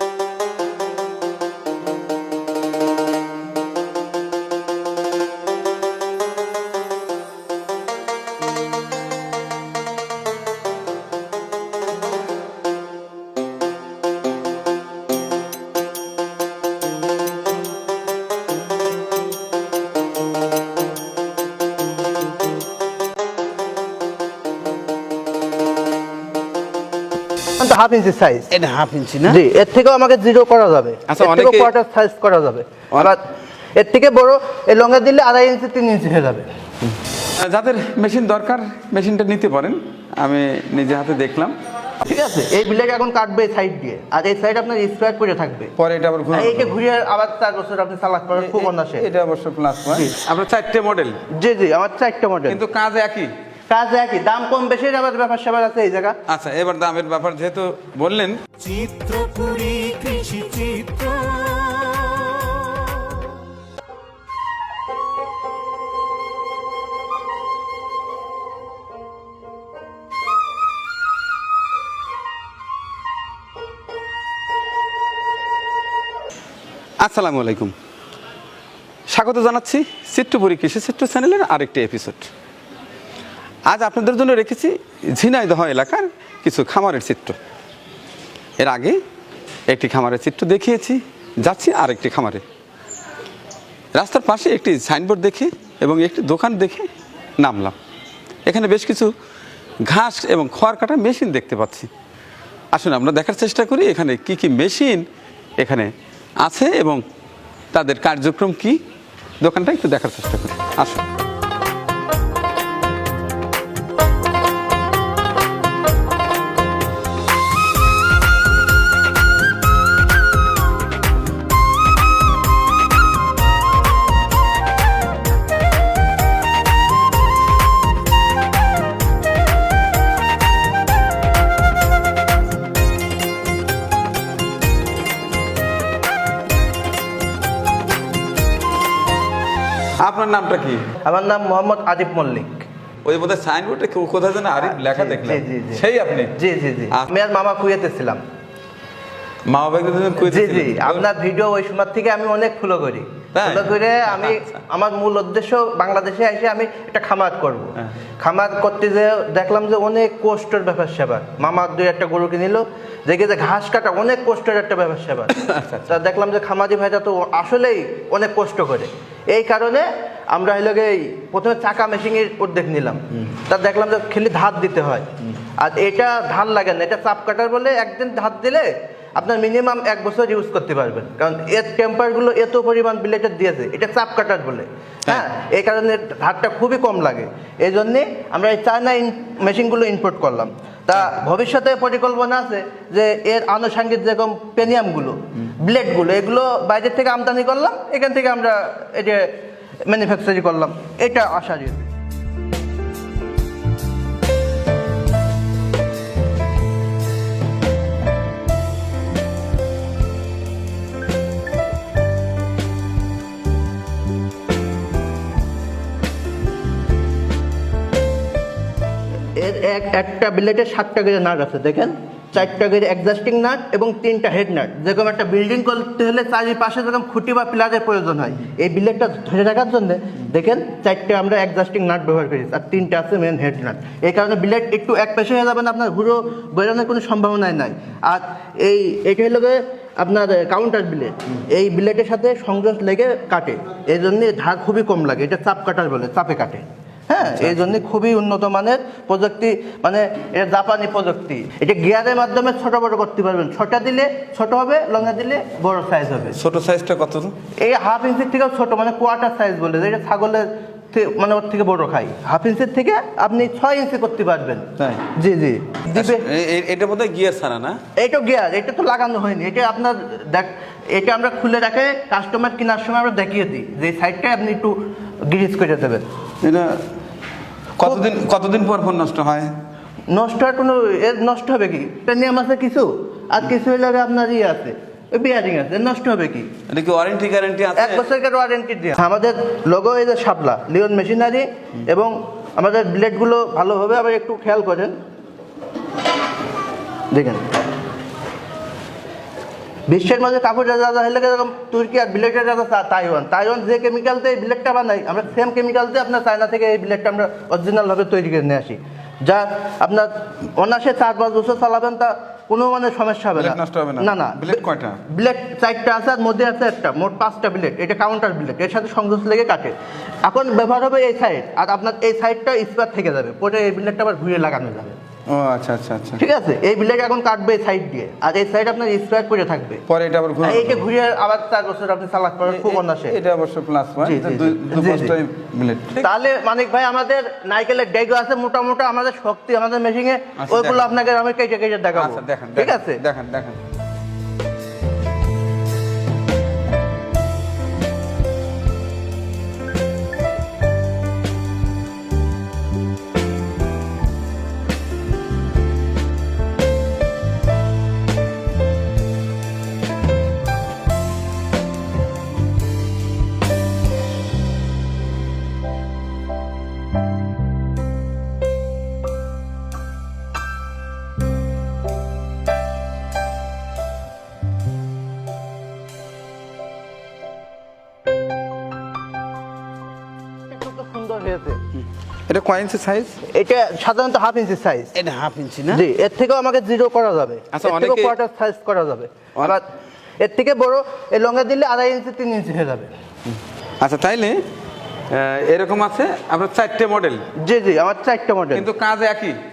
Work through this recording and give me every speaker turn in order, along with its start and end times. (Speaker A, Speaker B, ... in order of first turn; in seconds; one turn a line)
Speaker A: 27.6-28.5
Speaker B: 28.5-29.4
Speaker A: 29.2-36.5
Speaker B: 31.1-31.7
Speaker B: 37.2-41.5
Speaker A: 42.0-45.7
Speaker B: 45.8-46.7
Speaker A: 46.3-49.0
Speaker B: 48.4-51.2
Speaker A: 51.4-52.6
Speaker B: 52.5-53.3
Speaker A: 53.7-56.1
Speaker B: 56.3-59.0
Speaker C: 58.8-62.0
Speaker B: 77.0-77.7
Speaker B: 79.1-82.3
Speaker B: 83.7-87.4
Speaker B: 88.6-89.0
Speaker B: 89.7-92.4
Speaker B: 93.9-96.9
Speaker B: 97.4-97.8
Speaker B: 98.5-99.1
Speaker B: 99.8-101.9
Speaker B: 102.7-105.0
Speaker B: 105.6-105.9
Speaker B: 106.4-107.0
Speaker B: 107.7-108.8
Speaker B: 109.4-111.0
Speaker B: 140.0-140.9
Speaker A: 141.0-142.7
Speaker B: 143.0-146.3
Speaker A: 144.6-145.8
Speaker A: 146.3-148.2
Speaker B: 149.4-151.1
Speaker A: 150.2-199.3
Speaker B: 153.3-154.4
Speaker B: 165.3-165.9
Speaker A: 199.8-201.9
Speaker A: 219.3-256.4
Speaker B: 247.2-247.7
Speaker B: 256.3-257.3
Speaker A: 257.6-266.2
Speaker B: 264.8-265.1
Speaker B: 265.9-267.8
Speaker A: 267.9-276.0
Speaker B: 276.4-276.8
Speaker B: 277.8-279.5
Speaker A: 280.1-286.5
Speaker B: 286.7-288.0
Speaker A: 287.8-294.9
Speaker A: 297.1-297.6
Speaker A: 299.9-325.0
Speaker B: 313.4-315.0
Speaker B: 325.3-326.2
Speaker A: 326.2-329.8
Speaker B: 329.9-330.8
Speaker A: 330.4-333.2
Speaker B: 332.4-336.1
Speaker A: 334.0-335.1
Speaker A: 336.0-343.0
Speaker B: 340.4-340.9
Speaker B: 341.9-343.6
Speaker A: 380.5-381.6
Speaker B: 382.3-383.2
Speaker A: 383.2-384.9
Speaker B: 384.9-385.8
Speaker A: 385.7-389.7
Speaker B: 387.5-388.1
Speaker A: 390.2-392.9
Speaker B: 393.8-394.4
Speaker B: 395.1-397.2
Speaker A: 397.4-398.7
Speaker B: 398.5-399.4